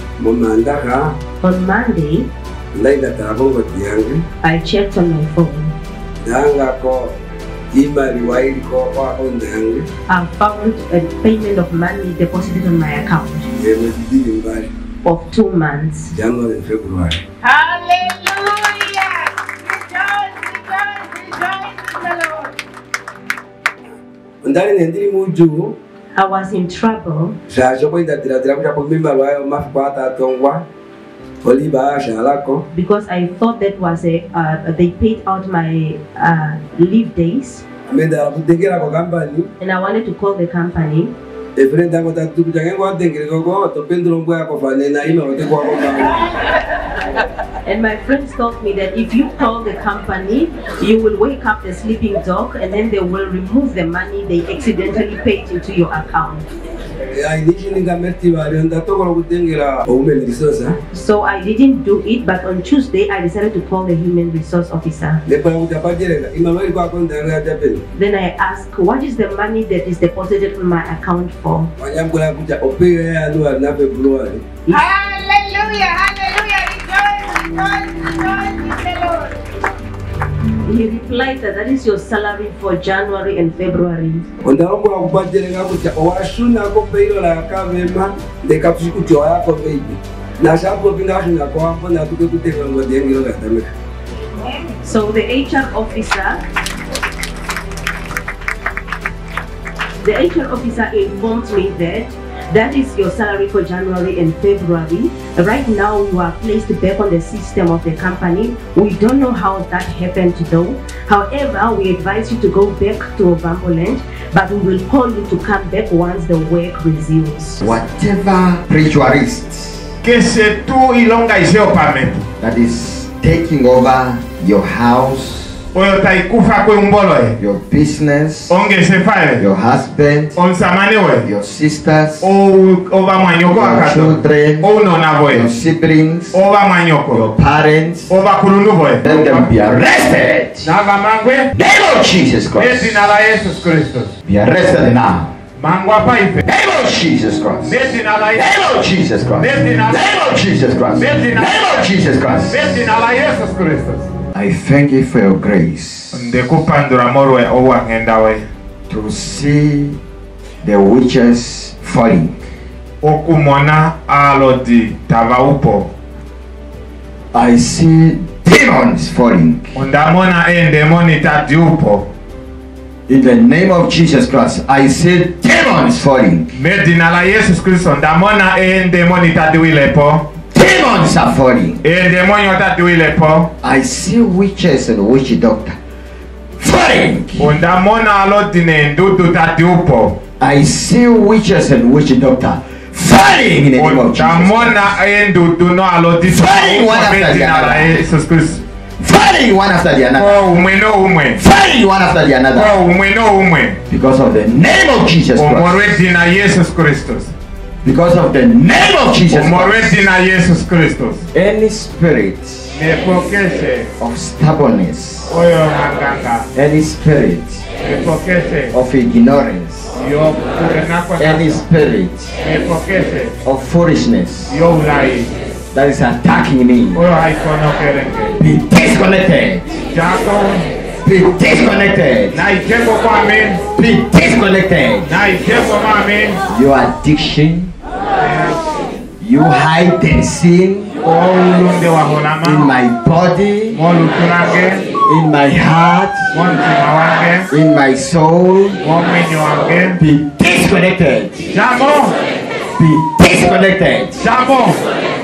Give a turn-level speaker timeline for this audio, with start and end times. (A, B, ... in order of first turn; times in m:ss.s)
0:00.2-0:01.2 A
0:01.4-0:02.3 B
0:02.7-0:04.2 A
0:04.4-0:05.7 B
0:06.2-0:07.1 A
0:07.7-0:09.9 A
0:10.1-0:13.5 B
0:13.6-0:14.7 A
0:15.0-0:16.1 B
0:16.1-0:17.2 A
0:24.4-0:25.8 A
0:26.1-0:27.4 B
0:27.5-0:30.6 A
0:31.4-0:32.6 A
0:32.7-0:37.6 B
0:37.9-0:39.5 A
0:39.6-0:41.1 B
0:41.6-0:46.2 A
0:47.6-0:56.5 B
0:57.1-1:00.8 A
1:00.9-1:05.2 B
1:05.3-1:07.8 A
1:07.9-1:11.7 B
1:11.8-1:14.4 A
1:14.8-1:18.5 C
1:20.7-1:24.2 B
1:24.4-1:33.7 A
1:34.8-1:36.4 B
1:40.0-1:57.6 B
1:57.6-1:59.9 D
2:00.0-2:02.2 E
2:02.4-2:05.6 D
2:05.7-2:07.3 E
2:07.4-2:08.6 D
2:08.5-2:09.4 E
2:09.4-2:10.4 D
2:10.4-2:11.3 E
2:11.2-2:12.3 D
2:12.2-2:15.5 E
2:13.5-2:14.7 D
2:15.3-2:16.4 D
2:16.3-2:17.2 E
2:17.1-2:18.2 D
2:18.1-2:19.5 E
2:19.0-2:20.7 D
2:20.6-2:21.5 E
2:21.5-2:23.0 D
2:22.6-2:24.1 E
2:24.2-2:25.3 D
2:25.6-2:26.4 E
2:26.4-2:32.8 D
2:27.6-2:28.6 E
2:29.3-2:30.2 E
2:31.0-2:31.8 E
2:32.5-2:34.1 E
2:34.3-2:36.2 D
2:36.1-2:38.4 E
2:38.9-2:40.0 D
2:40.6-2:42.5 D
2:43.0-2:45.9 E
2:47.3-2:49.8 D
2:49.7-2:52.1 E
2:53.1-2:56.5 D
2:56.5-3:00.3 E
3:00.5-3:01.8 D
3:01.8-3:03.5 E
3:03.6-3:05.8 D
3:06.6-3:07.6 D
3:07.4-3:10.2 E
3:10.4-3:14.8 D
3:13.8-3:18.6 E
3:16.3-3:18.1 D
3:19.0-3:20.4 D
3:20.2-3:21.4 E
3:21.4-3:22.7 D
3:22.5-3:23.8 E
3:23.9-3:26.0 D
3:25.4-3:27.3 E
3:27.8-3:30.0 D
3:29.3-3:31.2 E
3:31.3-3:32.8 D
3:32.7-3:33.9 E
3:34.0-3:35.4 D
3:35.3-3:36.5 E
3:36.5-3:37.7 D
3:37.8-3:38.7 E
3:38.7-3:40.0 D
3:40.0-3:41.6 E
3:41.2-3:42.4 D
3:42.4-3:43.4 E
3:43.4-3:44.6 D
3:44.5-3:45.3 E
3:45.7-3:47.0 D
3:46.9-3:48.4 E
3:48.4-3:49.8 D
3:49.9-3:50.7 E
3:51.0-3:52.4 D
3:52.3-3:53.6 E
3:53.7-3:55.2 D
3:55.0-3:56.4 E
3:56.5-3:57.7 D
3:58.2-3:58.6 E
3:59.2-4:00.9 D
4:01.0-4:02.6 E
4:02.4-4:03.8 D
4:03.7-4:04.8 E
4:05.0-4:06.3 D
4:06.3-4:07.5 E
4:07.5-4:08.8 D
4:08.8-4:10.0 E
4:10.0-4:11.5 D
4:11.5-4:12.2 E
4:12.8-4:14.2 D
4:14.2-4:14.8 E